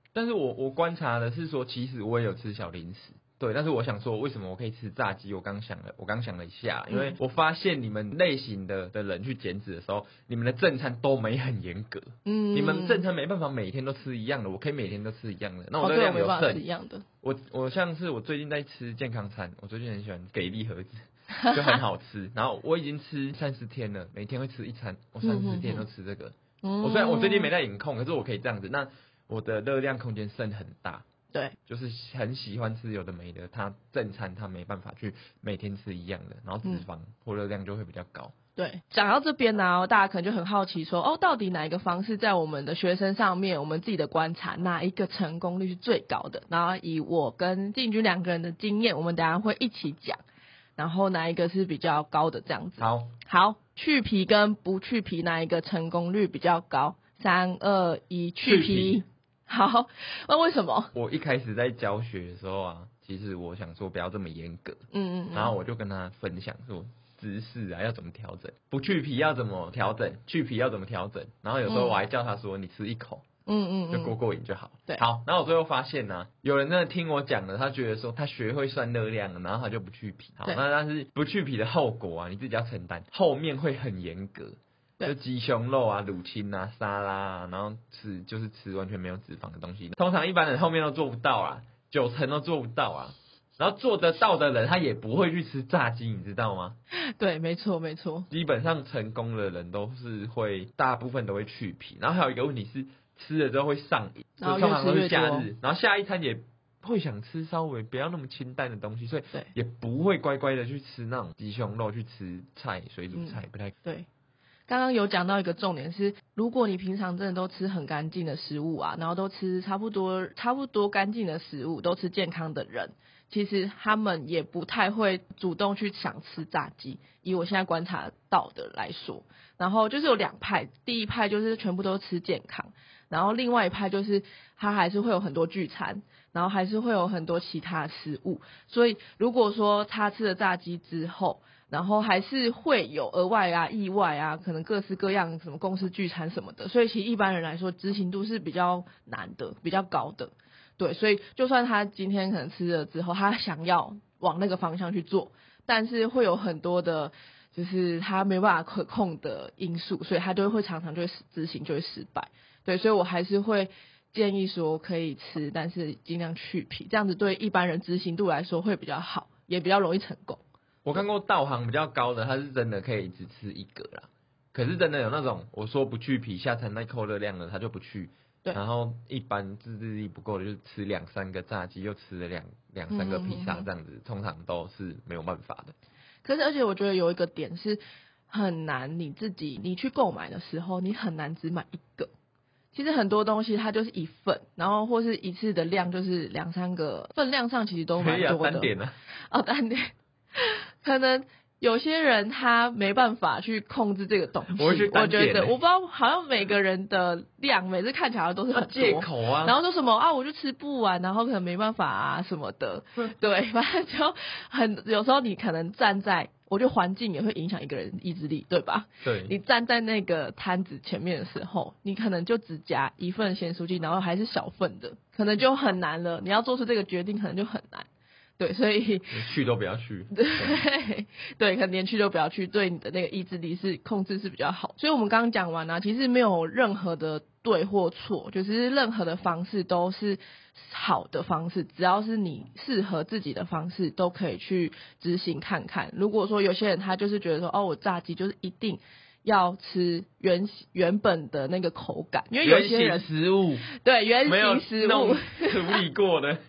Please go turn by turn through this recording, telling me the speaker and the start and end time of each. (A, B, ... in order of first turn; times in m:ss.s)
0:00.1-0:16.6 A
0:06.9-0:07.2 B
0:12.2-0:13.0 B
0:15.8-0:17.0 B
0:17.2-0:31.0 A
0:25.2-0:25.8 B
0:26.6-0:27.5 B
0:31.7-0:38.3 A
0:38.6-0:50.2 B
0:50.8-1:00.9 B
0:52.8-0:53.1 A
0:58.4-0:59.0 A
1:00.9-1:04.8 A
1:04.9-1:05.5 B
1:05.3-1:13.2 A
1:11.7-1:12.0 B
1:13.4-1:14.2 B
1:13.9-1:36.8 A
1:37.2-1:38.3 B
1:38.3-1:53.7 A
1:44.4-1:45.5 B
1:53.1-1:54.0 B
1:54.7-2:50.4 B
2:50.8-3:05.7 A
3:02.9-3:03.7 B
3:06.2-3:12.1 B
3:12.7-3:18.7 B
3:18.0-3:18.9 A
3:19.3-3:47.9 B
3:24.5-3:25.6 A
3:28.5-3:29.6 A
3:39.0-3:39.3 A
3:48.4-3:49.2 B
3:49.1-3:50.6 A
3:50.1-4:13.1 B
4:12.4-4:13.6 A
4:13.7-4:15.8 B
4:14.2-4:16.4 A